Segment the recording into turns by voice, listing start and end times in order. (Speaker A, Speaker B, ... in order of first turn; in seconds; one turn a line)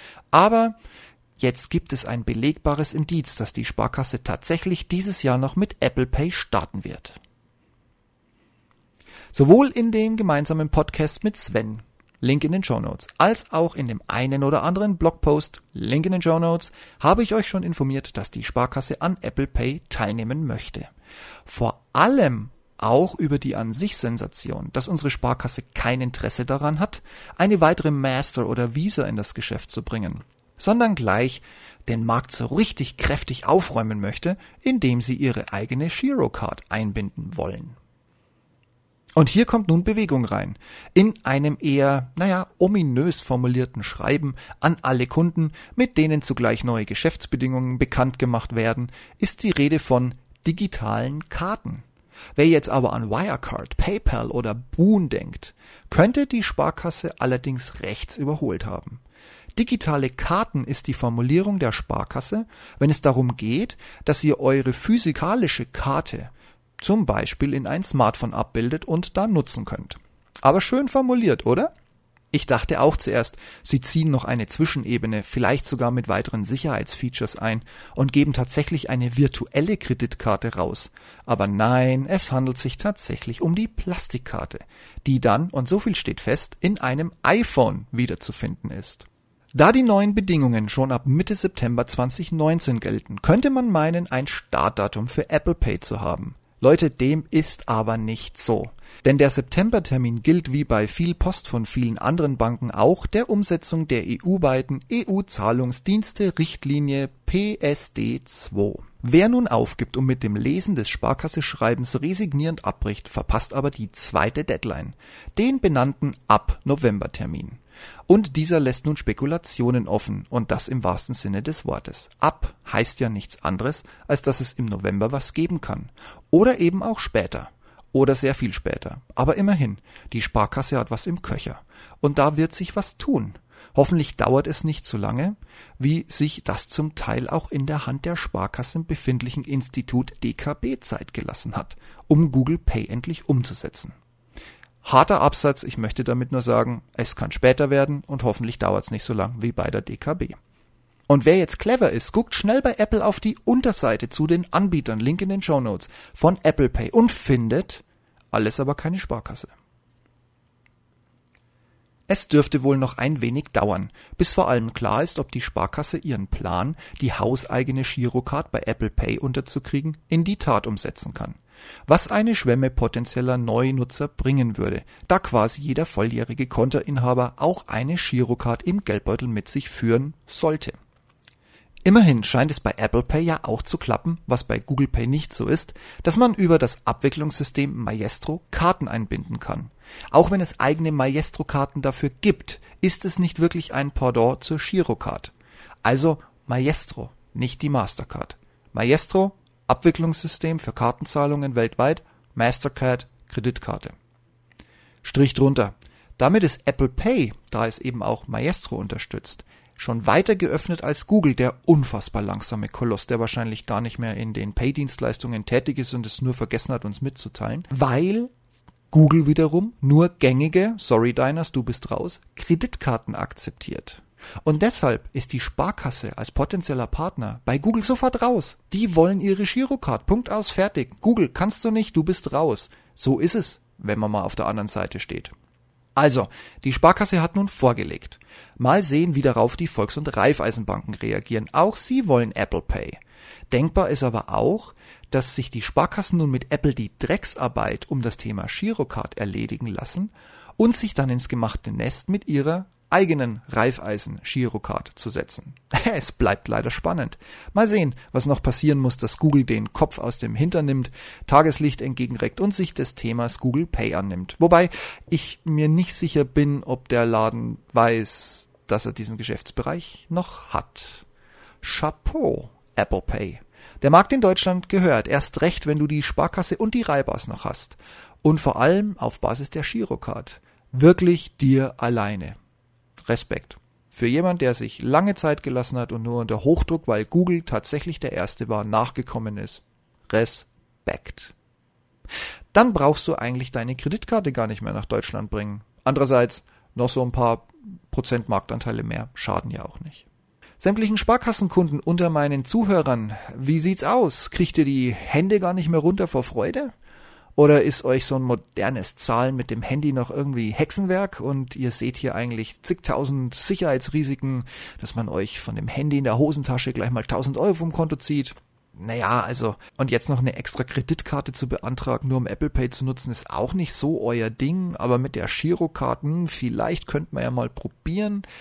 Speaker A: 0.3-0.8
Speaker A: 1.4-7.2
Speaker A: 9.3-20.9
Speaker A: 21.4-37.8
Speaker A: 39.1-51.8
Speaker A: 52.4-59.0
Speaker A: 59.5-71.7
Speaker A: 72.3-143.9
Speaker A: 144.8-150.3
Speaker A: 151.1-159.5
Speaker A: 162.1-180.8
Speaker A: 181.8-195.3
Speaker A: 195.8-203.9
Speaker A: 205.0-218.3
Speaker A: 218.9-235.3
Speaker A: 235.9-243.0
Speaker A: 243.5-271.0
Speaker A: 271.6-282.4
Speaker A: 283.0-291.3
Speaker A: 292.5-300.1
Speaker A: 300.6-306.7
Speaker A: 307.4-328.2